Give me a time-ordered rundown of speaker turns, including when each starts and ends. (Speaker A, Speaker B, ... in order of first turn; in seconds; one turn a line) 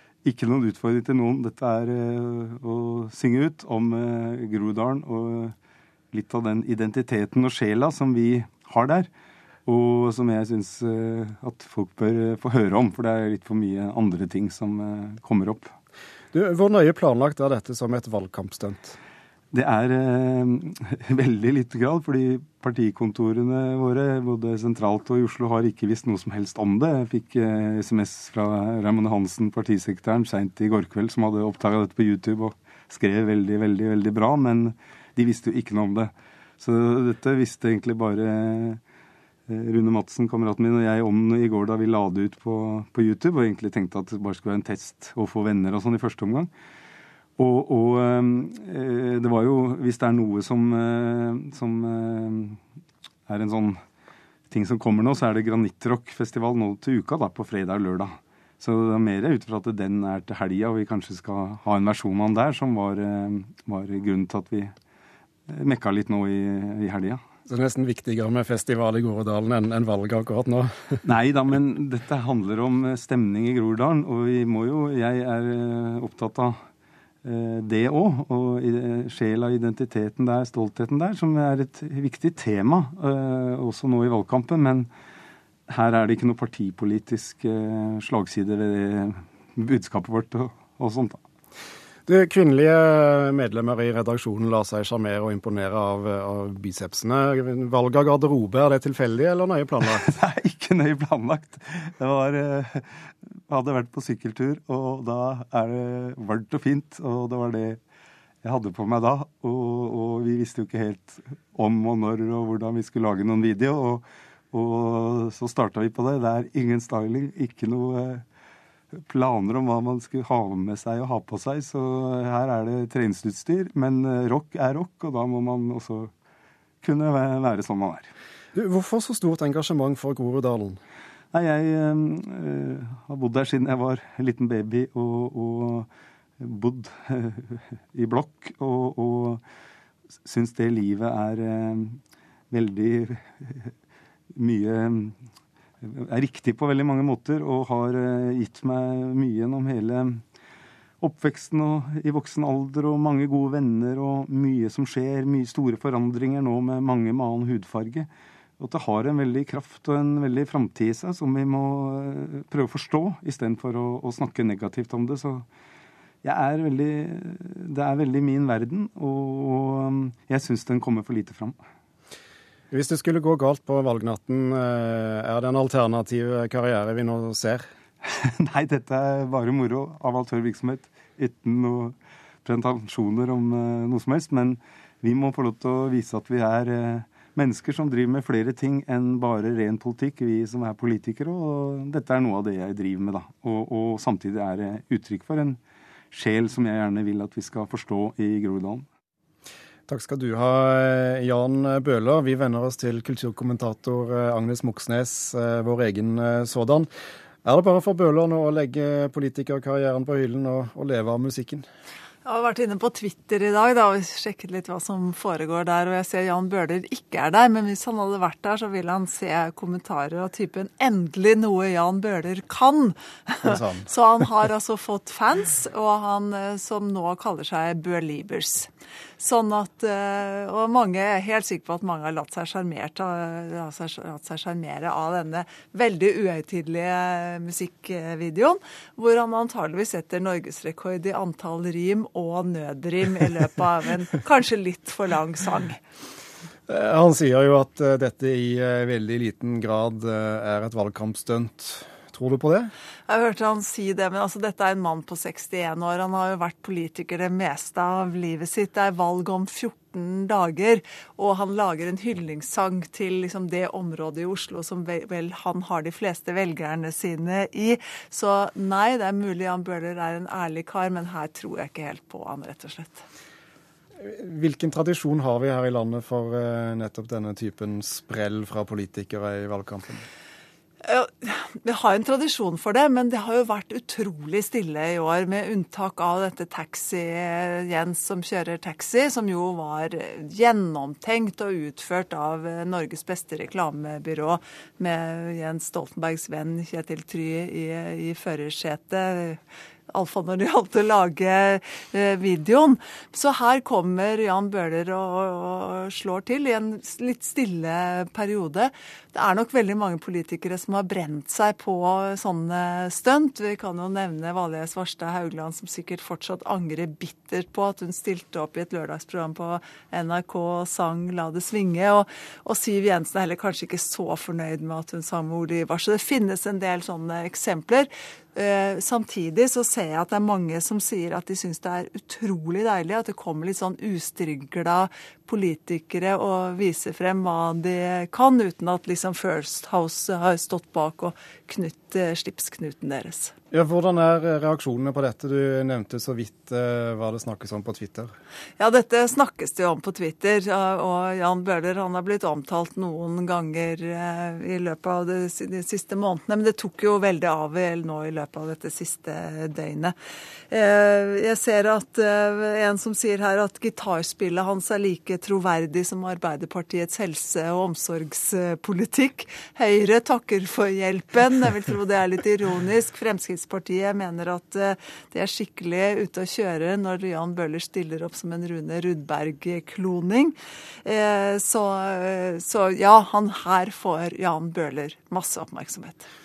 Speaker A: 0.2-5.5
Speaker A: 6.1-9.1
Speaker A: 9.7-15.7
Speaker B: 16.3-19.0
Speaker A: 19.5-38.8
Speaker A: 39.5-46.5
Speaker A: 47.4-52.6
Speaker A: 53.3-53.8
Speaker A: 54.5-64.7
Speaker A: 65.5-67.2
Speaker B: 67.5-71.0
Speaker A: 71.0-76.5
Speaker A: 77.2-84.9
Speaker A: 85.7-91.2
Speaker B: 92.0-100.0
Speaker A: 99.8-107.8
Speaker A: 108.4-118.2
Speaker A: 119.1-126.1
Speaker A: 126.8-128.1
Speaker B: 128.5-130.8
Speaker A: 131.3-135.9
Speaker A: 136.4-139.4
Speaker A: 140.2-142.0
Speaker A: 142.5-143.7
Speaker A: 144.3-145.2
Speaker A: 145.8-150.2
Speaker A: 151.0-158.1
Speaker A: 158.6-165.4
Speaker A: 166.2-171.6
Speaker B: 172.7-177.6
Speaker A: 178.0-195.6
Speaker A: 196.1-198.8
Speaker B: 199.9-206.9
Speaker B: 207.4-211.6
Speaker C: 212.2-245.8
Speaker B: 223.4-223.9
Speaker B: 246.7-252.7
Speaker C: 253.1-273.0
Speaker B: 274.0-280.1
Speaker C: 280.8-343.3
Speaker B: 343.5-348.1
Speaker C: 348.6-359.9
Speaker C: 360.5-386.1